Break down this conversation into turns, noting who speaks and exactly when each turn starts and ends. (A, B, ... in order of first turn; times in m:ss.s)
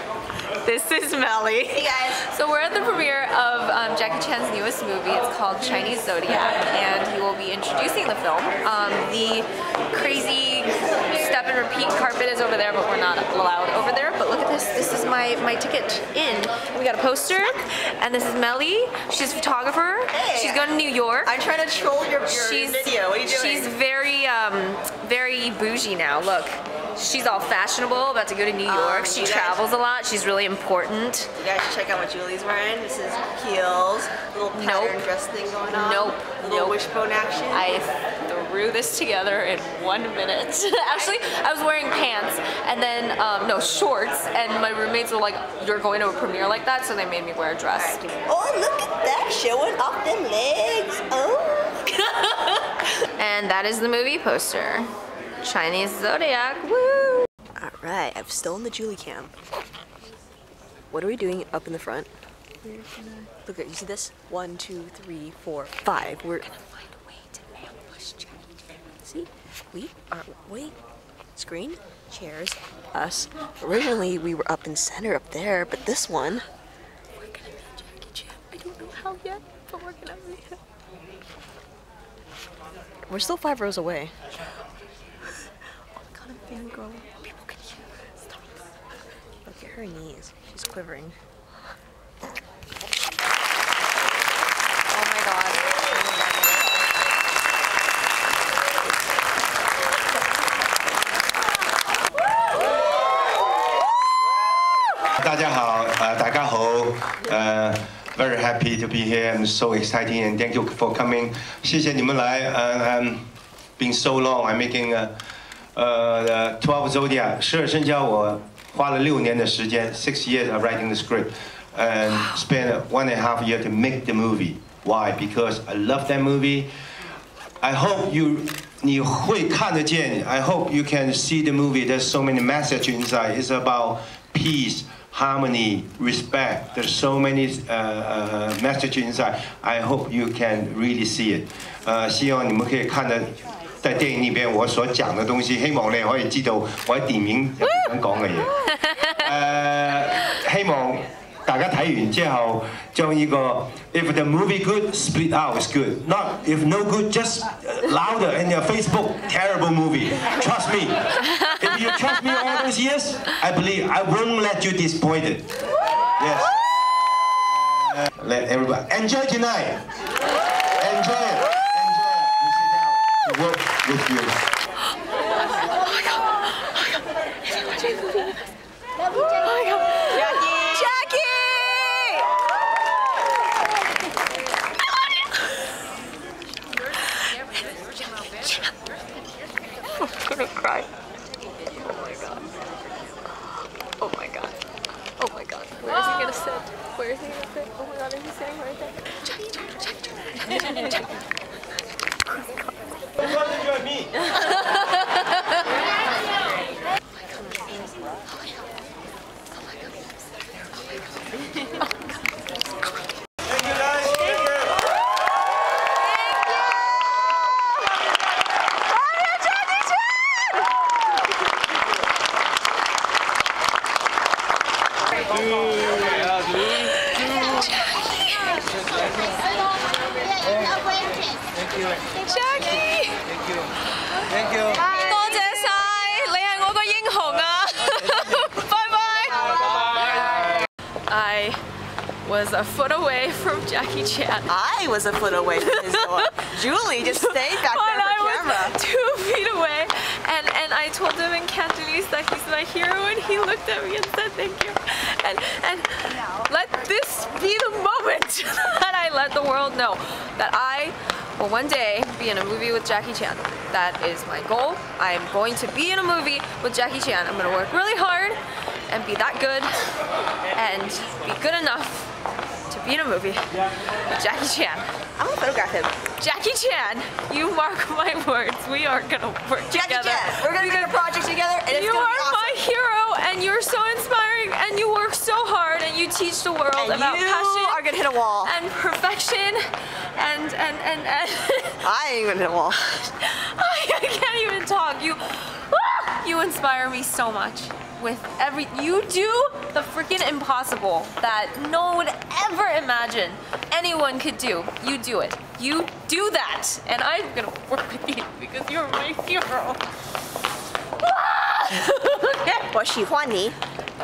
0:00.6-0:21.3 A
0:01.8-0:02.2 B
0:20.1-0:20.7 B
0:21.2-0:23.7 B
0:22.3-0:31.3 A
0:28.7-0:29.6 B
0:31.4-0:37.8 B
0:34.5-0:35.0 A
0:35.7-0:36.8 A
0:37.5-0:48.0 A
0:47.8-0:51.9 B
0:52.1-0:52.5 A
0:53.1-0:57.3 A
0:57.6-0:59.3 B
1:00.9-1:02.1 B
1:02.6-1:03.2 A
1:03.3-1:08.3 B
1:09.0-1:10.7 B
1:11.4-1:16.5 B
1:17.2-1:20.4 A
1:20.1-1:20.5 B
1:23.1-1:24.1 B
1:26.1-1:27.8 A
1:29.5-1:31.2 B
1:34.9-1:36.6 A
1:45.2-1:53.2 C
1:53.8-1:55.1 C
1:55.8-2:06.7 C
2:07.6-2:45.5 C
2:27.6-2:27.9 A
2:28.6-2:29.3 A
2:46.2-2:46.6 C
2:47.4-2:49.9 C
2:50.8-2:54.4 C
2:55.6-2:57.0 A
2:57.5-2:58.4 A
2:59.1-3:02.2 A
3:00.1-3:02.2 B
3:10.0-3:10.9 A
3:11.7-3:12.5 A
3:14.0-3:14.6 A
3:15.2-3:21.0 A
3:23.2-3:24.0 C
3:24.3-3:25.6 A
3:36.2-3:36.6 A
3:39.2-3:40.4 A
3:45.6-3:48.8 A
3:52.1-3:53.3 A
3:53.9-4:00.5 A
3:54.7-3:55.4 B
4:01.1-4:01.6 A
4:02.2-4:04.5 A
4:04.5-4:08.8 B
4:05.6-4:29.8 A
4:30.5-4:32.1 A
4:32.7-4:33.5 A
4:34.1-4:34.8 A
4:35.2-4:35.9 B
4:36.2-4:41.0 A
4:39.7-4:42.6 B
4:41.7-4:47.8 A
4:46.8-4:48.5 B
4:48.4-4:49.6 A
4:50.1-4:51.9 A
4:51.8-4:53.1 B
4:53.2-5:09.8 A
5:11.0-5:12.6 A
5:12.7-5:13.6 B